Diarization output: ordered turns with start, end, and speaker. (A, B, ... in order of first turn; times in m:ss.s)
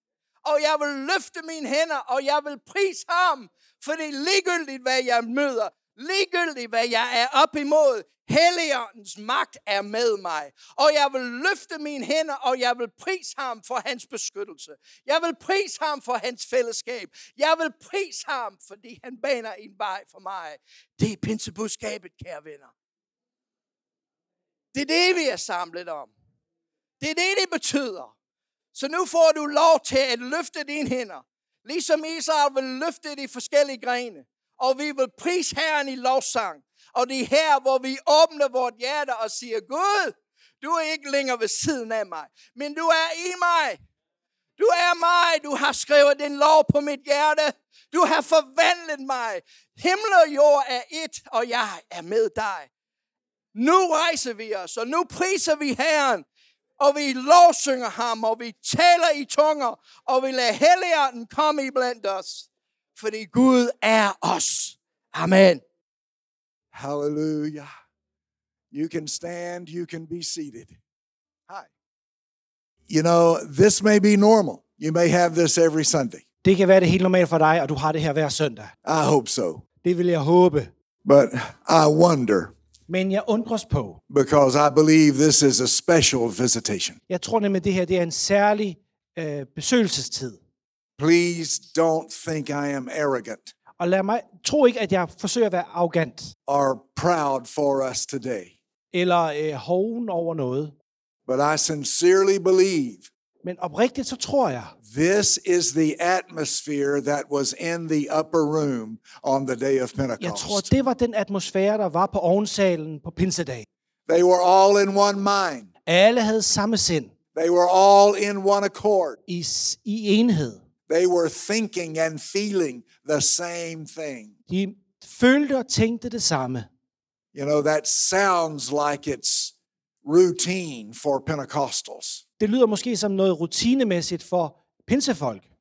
0:00.4-0:22.7 A
0:24.7-0:26.1 A
0:27.0-0:28.1 A
0:28.7-0:43.8 A
0:44.6-0:52.7 A
0:53.6-0:56.2 A
0:56.8-1:05.6 A
1:06.7-1:07.7 B
1:08.7-1:10.8 B
1:12.9-1:16.2 B
1:16.4-1:18.7 C
1:18.8-1:19.6 B
1:19.8-1:20.7 C
1:21.0-1:22.5 B
1:22.9-1:24.0 C
1:24.1-1:27.0 B
1:27.1-1:30.4 C
1:31.0-1:33.5 B
1:33.8-1:36.3 C
1:36.5-1:38.6 B
1:38.9-1:40.7 C
1:41.3-1:43.1 B
1:43.4-1:44.7 C
1:44.8-1:50.7 B
1:50.2-1:53.7 C
1:54.1-1:55.7 B
1:55.9-1:57.1 C
1:57.4-1:59.2 B
1:59.3-2:00.6 C
2:00.9-2:04.3 B
2:04.5-2:06.7 C
2:07.3-2:09.5 B
2:10.0-2:12.2 B
2:12.4-2:15.4 C